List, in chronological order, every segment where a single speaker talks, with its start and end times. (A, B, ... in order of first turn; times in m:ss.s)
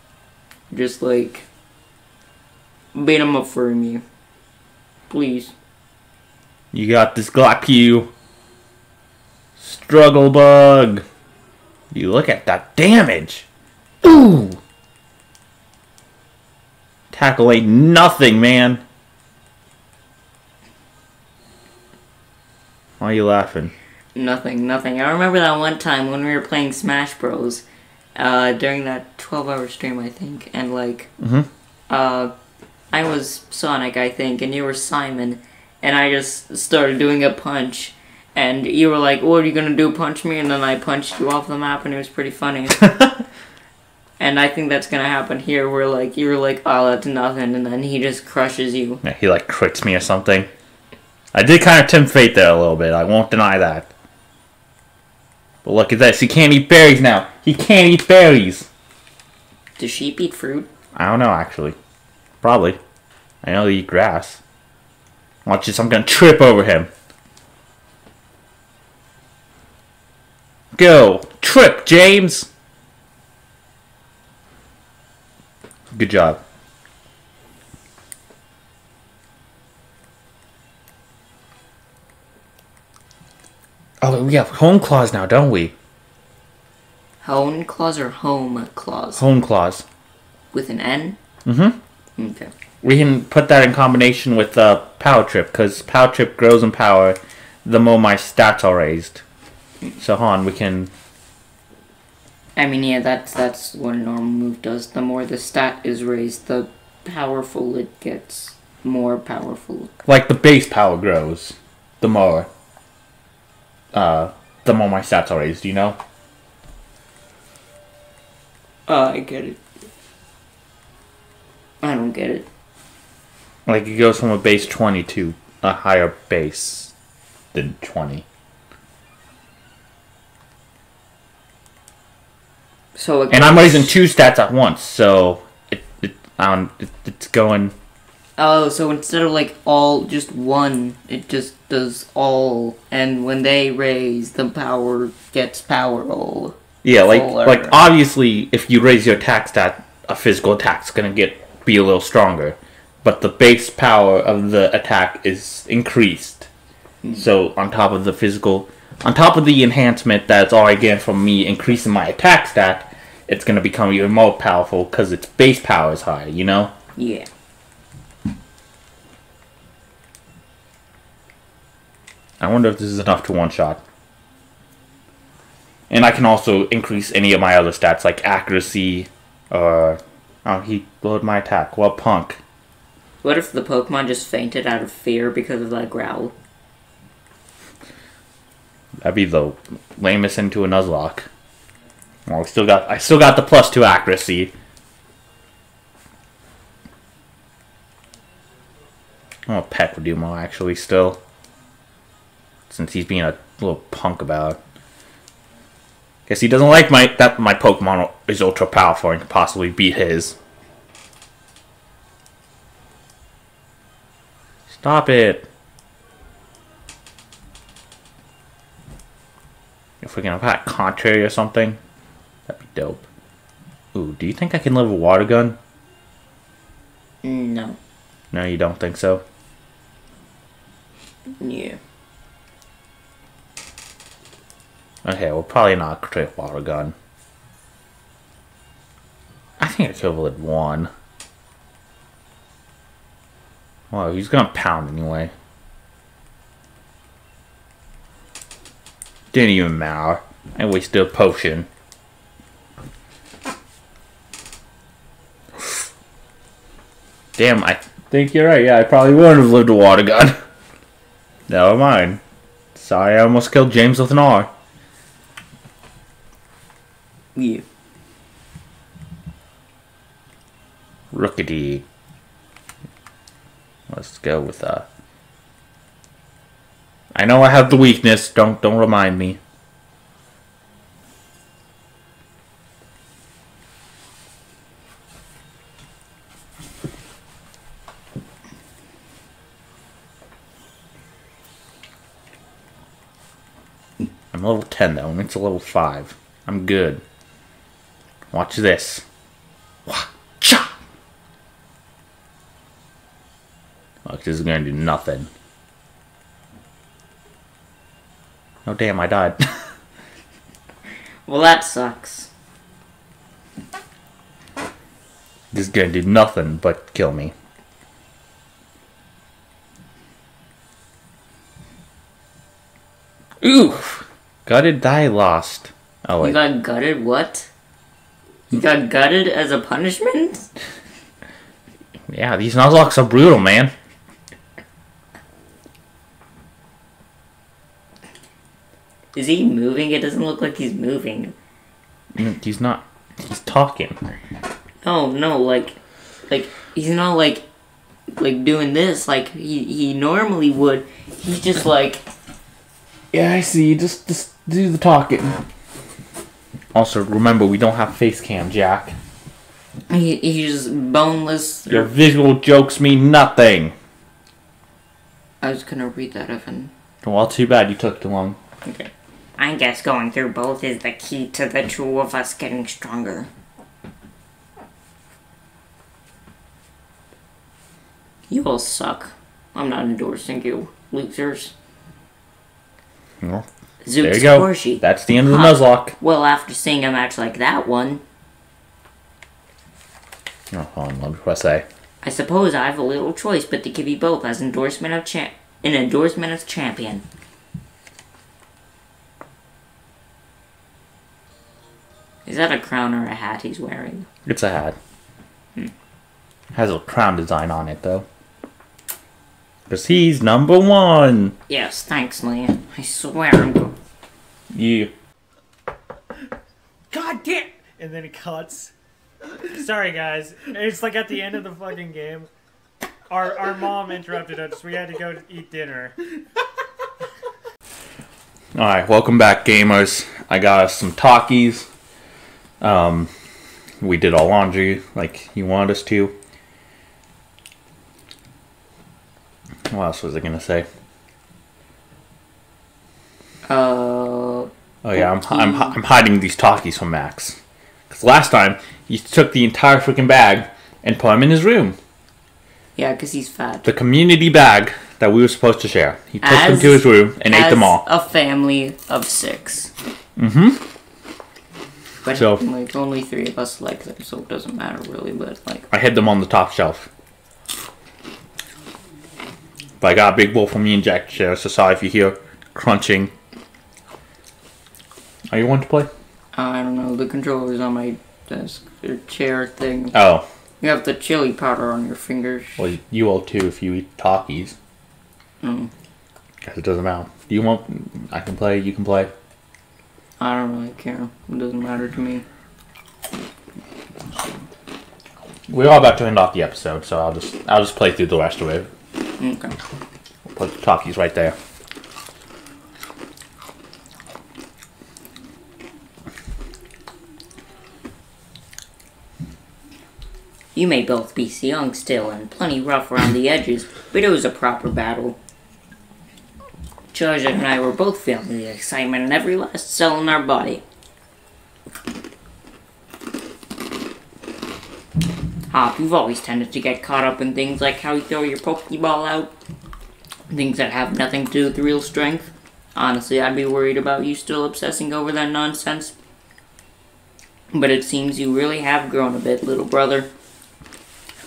0:00.7-0:01.5 A
0:02.9-0:04.0 A
0:05.1-0:05.5 A
0:06.7-0:08.1 B
0:09.6-0:11.0 B
0:11.9-0:13.5 B
0:14.0-0:14.6 B
0:17.1-0:18.8 B
0:23.0-0:23.7 B
0:24.1-0:27.6 A
0:28.2-0:31.1 A
0:31.2-0:31.5 B
0:31.9-0:32.3 A
0:32.9-0:42.8 A
0:42.8-0:43.1 B
0:44.2-0:49.0 A
0:49.0-0:50.5 B
0:51.3-0:53.9 B
0:55.6-0:58.7 B
0:59.8-1:00.7 A
1:00.9-1:01.8 B
1:02.4-1:02.8 B
1:03.4-1:04.4 B
1:05.4-1:06.9 B
1:10.7-1:12.5 B
1:15.9-1:16.4 B
1:24.0-1:25.7 B
1:27.2-1:29.2 A
1:29.2-1:29.8 B
1:30.5-1:31.2 A
1:31.4-1:31.8 B
1:32.2-1:32.5 A
1:32.8-1:39.2 B
1:40.0-1:40.9 B
1:42.6-1:49.9 A
1:50.0-1:52.5 B
1:53.9-1:56.0 B
1:58.9-1:59.6 A
2:01.8-2:02.4 A
2:03.6-2:06.9 B
2:07.5-2:08.2 B
2:12.9-2:14.0 A
2:13.3-2:17.7 B
2:18.4-2:27.8 A
2:26.8-2:36.5 B
2:37.1-2:46.7 B
2:47.0-2:47.3 A
2:52.4-2:53.8 B
2:55.9-3:02.4 B
3:03.2-3:06.3 A
3:09.0-3:11.3 B
3:12.3-3:14.5 B
3:19.5-3:21.2 B
3:22.7-3:24.6 B
3:26.3-3:30.4 B
3:34.7-3:35.4 B
3:40.0-3:41.8 B
3:42.5-3:43.0 B
3:43.9-3:45.6 B
3:47.2-3:47.8 A
3:48.3-3:49.2 B
3:51.4-3:51.8 A
3:55.0-3:56.9 B
3:59.6-4:00.9 B
4:03.9-4:05.3 B
4:09.3-4:11.7 B
4:17.4-4:20.4 B
4:21.5-4:22.2 B
4:22.7-4:24.5 B
4:27.3-4:27.6 A
4:31.1-4:31.8 B
4:33.9-4:34.8 B
4:37.1-4:39.4 B
4:54.3-4:57.0 B
4:58.3-4:59.0 B
4:59.9-5:00.7 B
5:04.0-5:05.3 B
5:08.6-5:09.4 B
5:11.2-5:12.3 A
5:15.5-5:17.3 B
5:23.4-5:26.4 B
5:26.2-5:27.5 A
5:28.5-5:30.5 A
5:32.1-5:33.7 B
5:39.1-5:41.3 A
5:42.1-5:44.0 B
5:44.8-5:45.8 A
5:46.3-5:47.4 A
5:48.1-5:52.0 A
5:53.1-5:55.4 B
5:56.7-5:58.9 B
5:59.9-6:01.9 A
6:01.7-6:03.7 B
6:05.4-6:06.7 A
6:07.0-6:08.4 B
6:08.6-6:13.3 A
6:18.3-6:21.5 A
6:23.8-6:28.0 A
6:24.0-6:25.9 B
6:30.5-6:31.6 B
6:32.0-6:37.0 A
6:42.2-6:44.0 A
6:44.2-6:44.8 B
6:46.5-6:48.0 B
6:49.7-6:51.3 B
6:51.5-6:53.8 A
6:54.5-6:54.9 B
6:56.9-6:58.7 C
6:59.3-7:02.3 C
7:03.1-7:06.0 C
7:08.5-7:11.7 B
7:12.6-7:13.1 B
7:13.8-7:16.1 B
7:19.7-7:20.6 B
7:23.4-7:25.7 A
7:24.8-7:27.4 B
7:27.9-7:31.8 B
7:32.8-7:33.7 A
7:33.6-7:37.8 B
7:36.2-7:39.7 A
7:40.2-7:40.6 B
7:42.0-7:45.7 A
7:42.1-7:42.4 B
7:45.7-7:46.9 B
7:49.8-7:53.1 B
7:55.3-7:55.9 B
7:56.3-7:59.9 A
7:59.9-8:00.2 B
8:00.6-8:02.6 A
8:02.6-8:04.6 B
8:05.4-8:05.7 A
8:06.4-8:09.1 B
8:10.2-8:12.2 A
8:15.5-8:18.7 B
8:19.2-8:19.6 A
8:20.3-8:21.4 B
8:30.5-8:35.2 A
8:36.9-8:40.6 A
8:45.5-8:49.3 A
8:50.3-8:55.9 A
8:57.5-9:00.1 A